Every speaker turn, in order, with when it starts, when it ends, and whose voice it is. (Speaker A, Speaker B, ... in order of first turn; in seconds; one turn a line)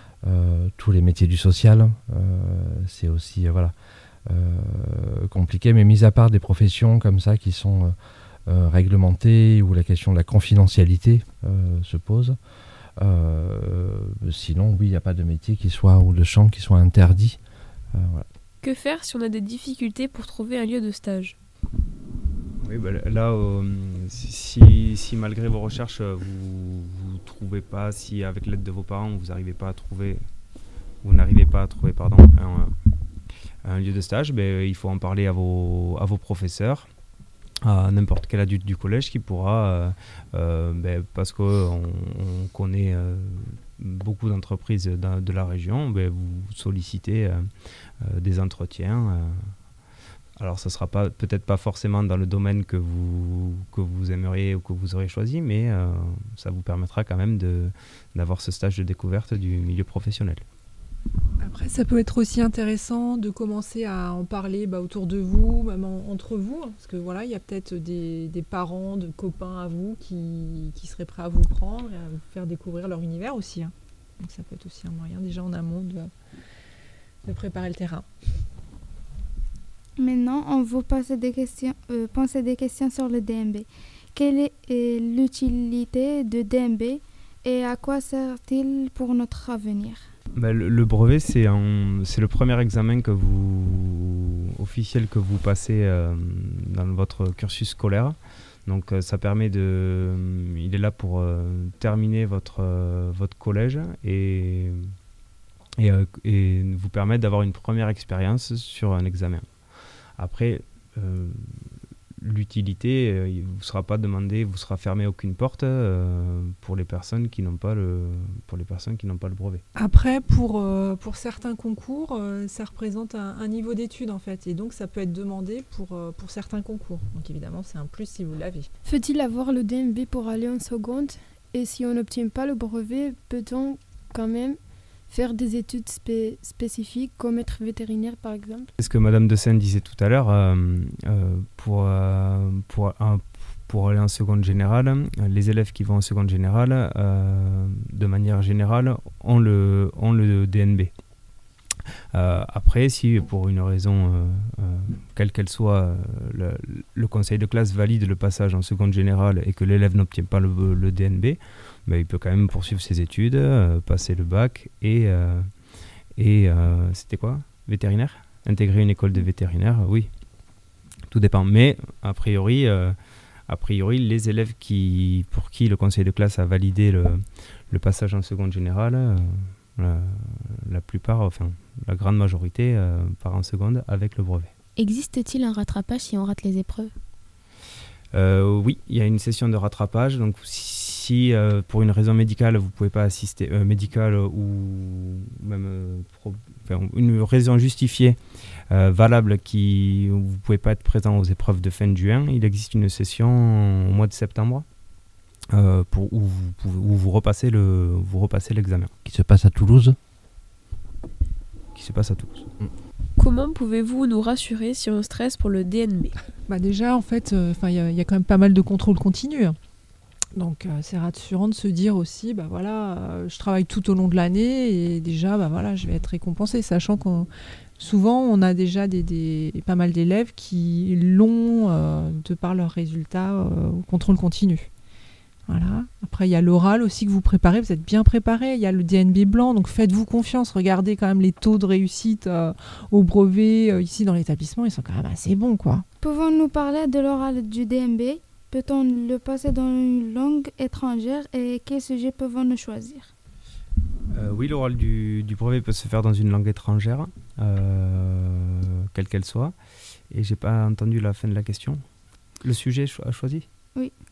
Speaker A: 0.2-3.7
Speaker A: 4.3-7.9
Speaker A: 8.5-12.4
Speaker A: 13.0-17.4
Speaker A: 17.9-18.3
Speaker B: 18.6-21.4
Speaker C: 22.6-30.2
Speaker C: 31.0-32.8
Speaker C: 33.6-36.9
Speaker C: 37.6-49.5
Speaker C: 50.4-60.4
Speaker D: 61.4-76.1
Speaker D: 77.2-78.1
Speaker E: 80.0-90.1
Speaker C: 90.4-104.9
Speaker C: 105.8-109.5
Speaker C: 110.2-111.6
Speaker C: 112.2-119.6
Speaker D: 119.8-128.7
Speaker F: 128.8-138.7
Speaker C: 138.8-150.9
Speaker C: 152.1-165.5
Speaker C: 166.2-170.1
Speaker C: 171.1-173.0
Speaker C: 173.5-184.5
Speaker G: 184.8-186.9
Speaker C: 188.1-204.7
Speaker C: 205.5-208.9
Speaker A: 209.1-210.0
Speaker C: 211.7-212.5
Speaker B: 213.2-216.1
Speaker D: 216.5-219.6
Speaker D: 220.3-234.7
Speaker D: 235.5-245.8
Speaker E: 246.0-253.1
Speaker C: 254.1-259.6
Speaker C: 260.1-261.8
Speaker C: 262.4-263.5